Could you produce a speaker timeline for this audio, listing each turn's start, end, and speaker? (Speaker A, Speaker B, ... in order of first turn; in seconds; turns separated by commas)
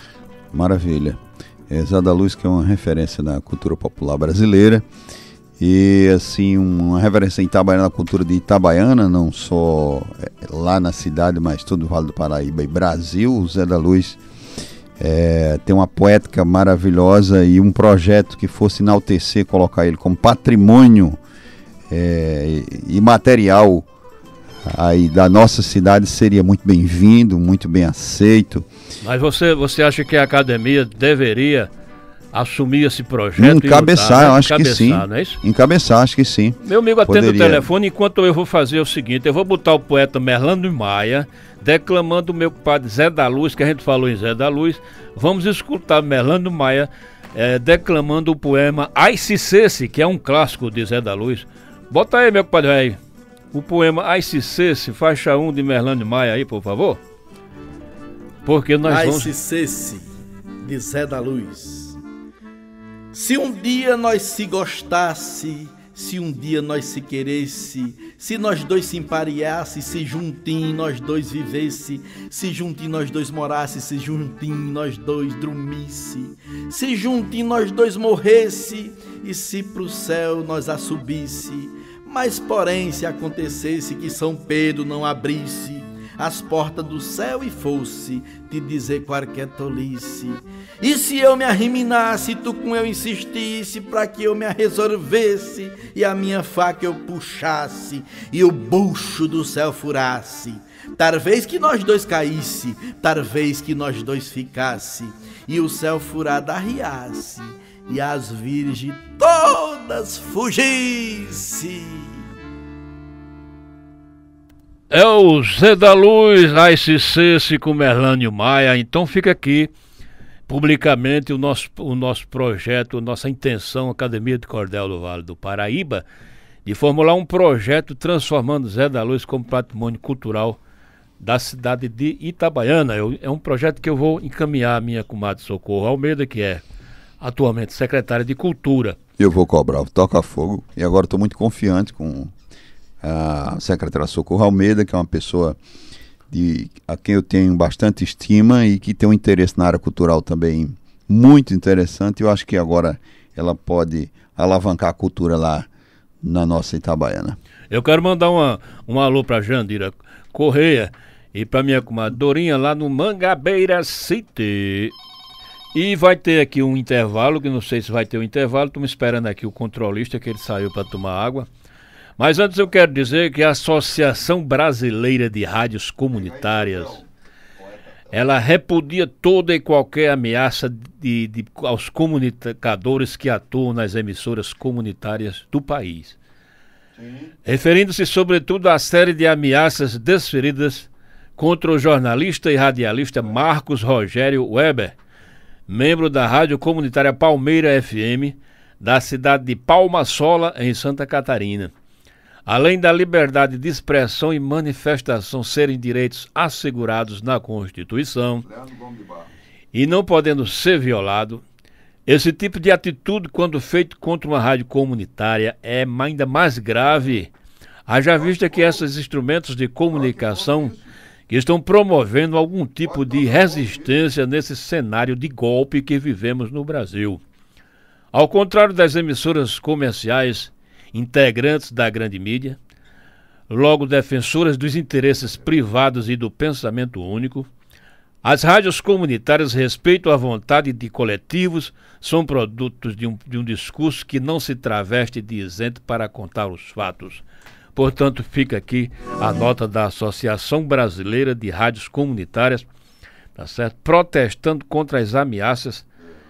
Speaker A: 0.5-4.8, Speaker A: 5.6-14.2, Speaker A: 15.0-21.2, Speaker A: 21.9-23.9, Speaker A: 24.6-28.7, Speaker B: 29.0-31.7, Speaker B: 32.3-35.4, Speaker A: 33.4-37.7, Speaker B: 36.6-53.0, Speaker B: 53.5-57.0, Speaker B: 58.4-59.3, Speaker C: 58.9-60.1, Speaker C: 60.6-62.0, Speaker C: 63.1-112.2, Speaker B: 114.9-119.7, Speaker B: 120.5-126.0, Speaker B: 126.6-130.6, Speaker B: 131.2-136.6, Speaker B: 137.2-139.0, Speaker A: 139.2-142.3, Speaker A: 143.0-145.6, Speaker A: 146.3-155.7, Speaker A: 156.2-157.4, Speaker B: 157.7-164.9, Speaker B: 165.7-171.5, Speaker B: 172.2-177.0, Speaker A: 176.2-177.0, Speaker B: 178.1-186.2, Speaker A: 187.0-187.3, Speaker B: 187.4-194.9, Speaker B: 195.7-201.7, Speaker B: 202.4-208.4, Speaker A: 208.4-209.3, Speaker B: 209.7-211.4, Speaker B: 212.1-217.3, Speaker B: 217.9-220.8, Speaker A: 218.4-218.8, Speaker A: 219.9-220.8, Speaker B: 221.3-227.2, Speaker A: 222.9-223.9, Speaker B: 228.1-232.6, Speaker B: 233.5-237.5, Speaker B: 238.2-247.2, Speaker B: 247.8-252.7, Speaker B: 253.4-255.8